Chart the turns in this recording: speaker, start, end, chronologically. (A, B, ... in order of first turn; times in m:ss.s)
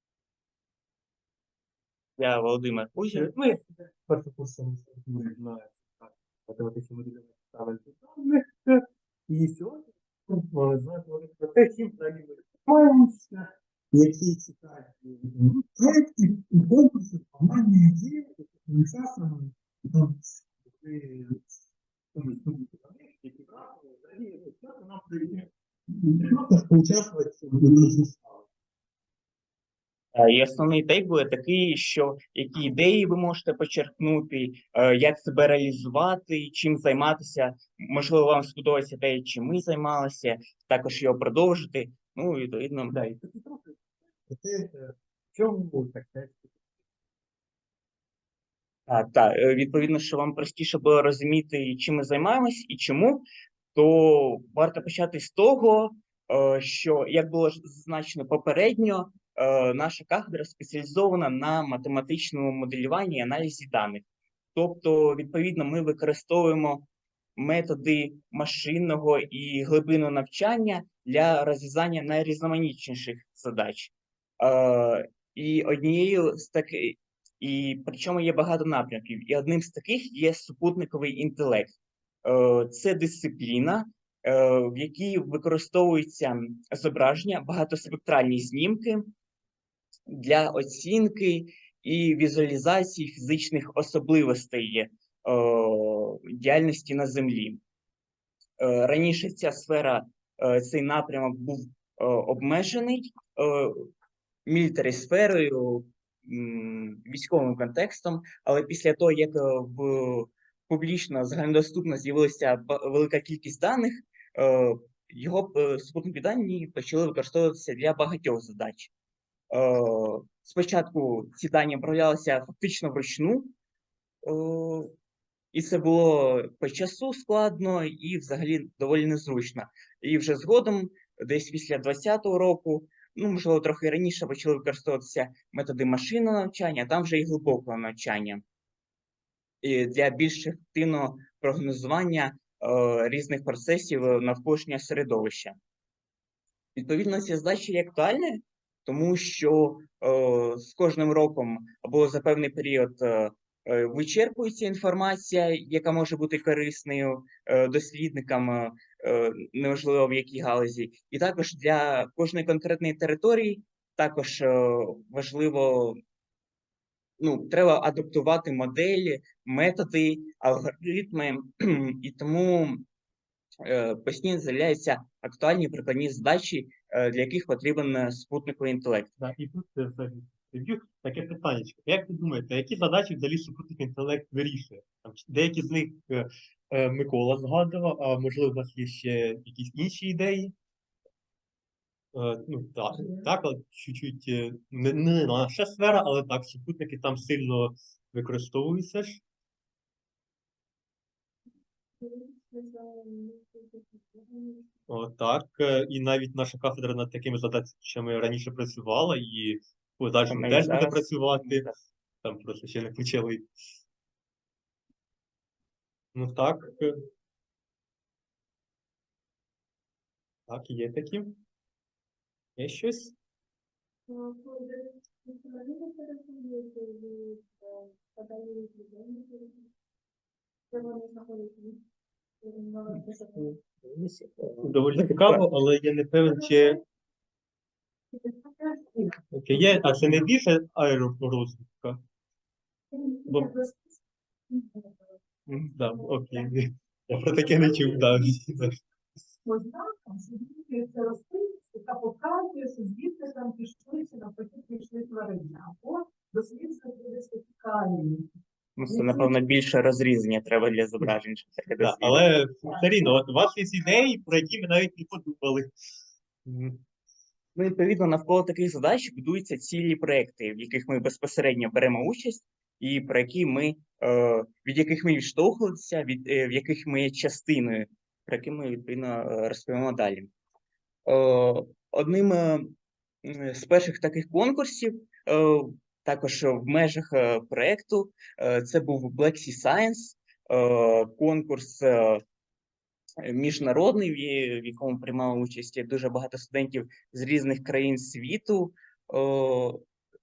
0:02.2-0:03.3 A
0:03.1-0:21.4 B
0:22.2-0:28.4 B
0:30.1-0:43.0 A
0:42.9-0:43.8 B
0:44.3-0:46.5 B
0:48.9-1:29.1 A
1:30.1-1:37.6 A
1:38.6-1:43.9 A
1:44.4-1:58.9 A
1:59.5-2:03.5 A
2:04.2-2:04.9 A
2:05.5-2:18.4 A
2:19.6-2:25.6 A
2:26.8-2:46.0 A
2:47.2-2:52.8 A
2:53.6-2:59.1 A
2:59.2-3:10.5 B
3:12.1-3:19.2 B
3:22.0-3:24.6 C
3:24.9-3:31.7 B
3:30.3-3:31.8 A
3:32.2-3:33.5 B
3:36.1-3:37.0 B
3:40.5-3:41.4 B
3:42.6-3:43.2 B
3:44.1-3:49.6 C
3:50.7-3:51.8 C
3:52.4-3:53.3 C
3:53.4-3:55.4 A
3:54.6-3:56.8 B
3:56.2-3:56.8 C
3:58.1-4:00.2 C
3:59.3-4:02.0 B
4:02.9-4:04.0 C
4:04.5-4:04.9 C
4:05.7-4:08.8 B
4:06.0-4:06.5 C
4:07.4-4:08.4 C
4:09.4-4:18.3 C
4:18.8-4:22.2 A
4:18.9-4:19.5 C
4:21.8-4:25.7 B
4:26.4-4:26.8 B
4:27.5-4:40.3 A
4:41.0-4:42.7 A
4:43.2-4:52.2 A
4:53.2-4:59.8 A